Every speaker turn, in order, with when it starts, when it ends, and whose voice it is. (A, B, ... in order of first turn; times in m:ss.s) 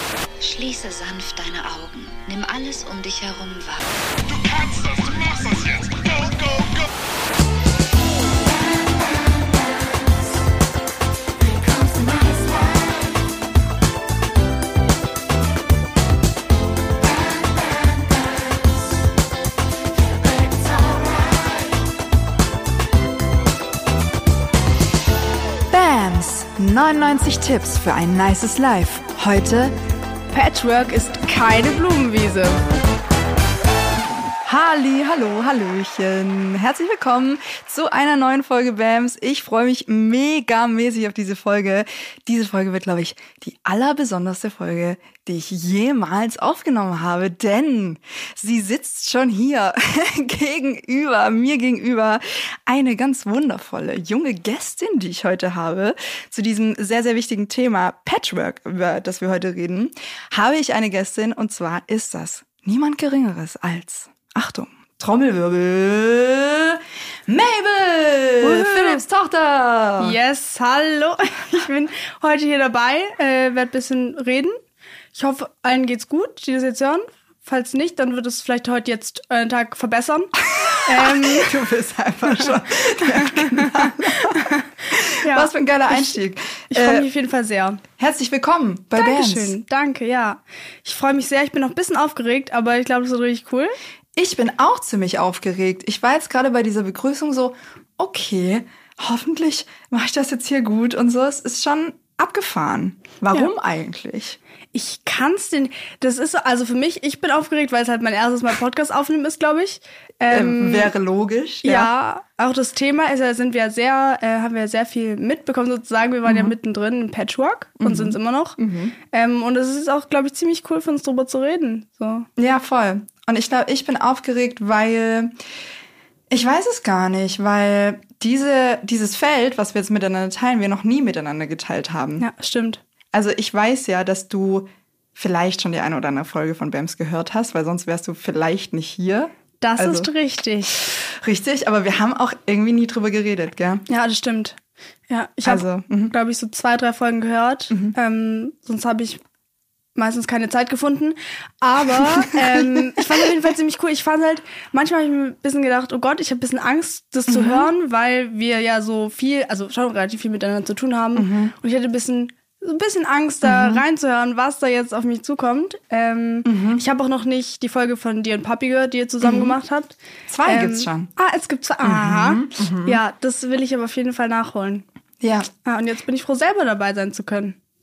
0:00.4-0:06.9 A
0:08.3-0:10.1 A
0:11.4-0:13.2 A
0:17.0-0:18.2 A
0:19.9-0:21.7 A
0:25.7-0:29.7 B
0:30.3-0:32.6 C
0:34.4-1:10.2 B
1:08.4-1:09.0 C
1:10.0-1:14.6 C
1:15.1-1:20.3 C
1:20.5-1:27.1 B
1:20.8-1:21.6 C
1:23.0-1:24.6 C
1:25.2-1:26.2 C
1:26.7-1:27.8 C
1:28.0-1:29.6 B
1:29.0-1:33.7 C
1:34.2-1:44.4 B
1:44.7-1:50.9 C
1:50.3-1:51.9 B
1:51.6-2:02.3 C
1:56.2-1:56.5 B
1:57.8-1:59.0 B
2:02.4-2:05.3 B
2:06.3-2:12.3 B
2:12.2-2:12.8 C
2:13.1-2:20.1 B
2:19.6-2:20.9 C
2:20.8-2:23.8 B
2:23.9-2:24.6 C
2:25.1-2:29.2 C
2:25.4-2:26.1 B
2:27.7-2:27.9 B
2:30.0-2:54.8 C
2:32.4-2:32.8 B
2:37.3-2:37.7 B
2:41.2-2:41.5 B
2:43.4-2:43.8 B
2:46.4-2:46.8 B
2:49.2-2:49.5 B
2:50.3-2:51.1 B
2:51.8-2:53.0 B
2:55.2-2:55.5 B
2:55.5-2:57.6 C